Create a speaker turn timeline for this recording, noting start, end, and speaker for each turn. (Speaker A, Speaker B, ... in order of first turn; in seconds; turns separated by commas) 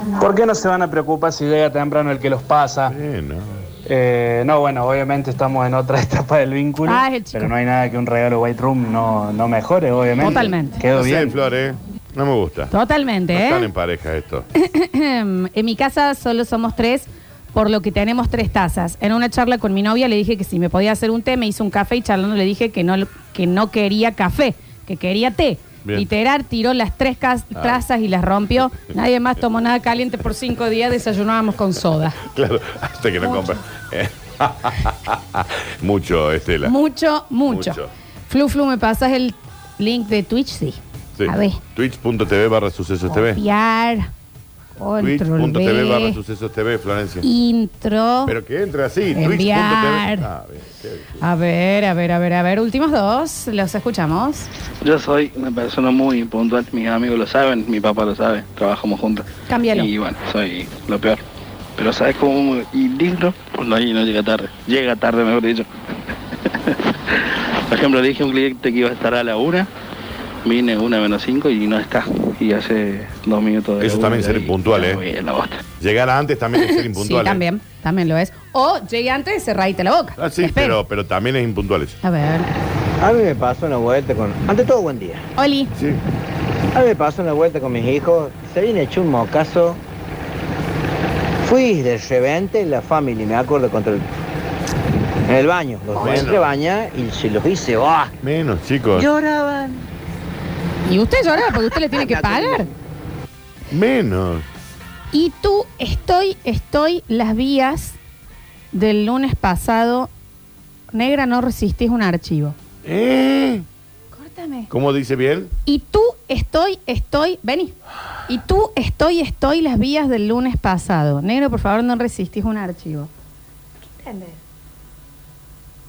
Speaker A: 0.2-3.0, Speaker B: 2.9-3.5, Speaker A: 3.9-11.3, Speaker C: 6.8-7.5, Speaker C: 10.2-10.8, Speaker B: 10.9-12.7, Speaker C: 12.7-13.7, Speaker B: 13.3-14.5, Speaker C: 14.6-32.2, Speaker B: 32.2-36.7, Speaker C: 33.2-33.5, Speaker C: 36.6-41.6, Speaker B: 37.5-37.9, Speaker B: 41.2-43.4, Speaker C: 43.1-44.1, Speaker C: 44.8-46.2, Speaker B: 45.0-47.2, Speaker C: 47.2-48.3, Speaker B: 48.3-51.1, Speaker C: 49.1-50.3, Speaker C: 51.2-54.5, Speaker D: 54.8-61.2, Speaker C: 59.5-59.9, Speaker D: 61.8-65.7, Speaker D: 67.7-69.7, Speaker D: 70.5-75.6, Speaker B: 73.8-75.0, Speaker B: 75.8-77.4, Speaker C: 76.6-80.8, Speaker B: 80.2-82.0, Speaker C: 82.0-82.5, Speaker E: 83.0-85.2, Speaker C: 85.4-85.7, Speaker B: 85.8-86.0, Speaker E: 86.7-89.8, Speaker E: 91.4-94.0, Speaker E: 95.3-98.1, Speaker B: 96.0-96.4, Speaker B: 98.2-99.1, Speaker E: 99.0-99.8, Speaker C: 100.9-102.7, Speaker E: 101.9-102.6, Speaker B: 103.7-104.5, Speaker C: 105.1-108.0, Speaker C: 108.7-110.1, Speaker C: 110.9-112.5, Speaker B: 112.8-113.7, Speaker C: 114.1-114.7, Speaker B: 114.7-115.5, Speaker C: 115.7-117.7, Speaker C: 118.3-123.1, Speaker C: 124.0-124.4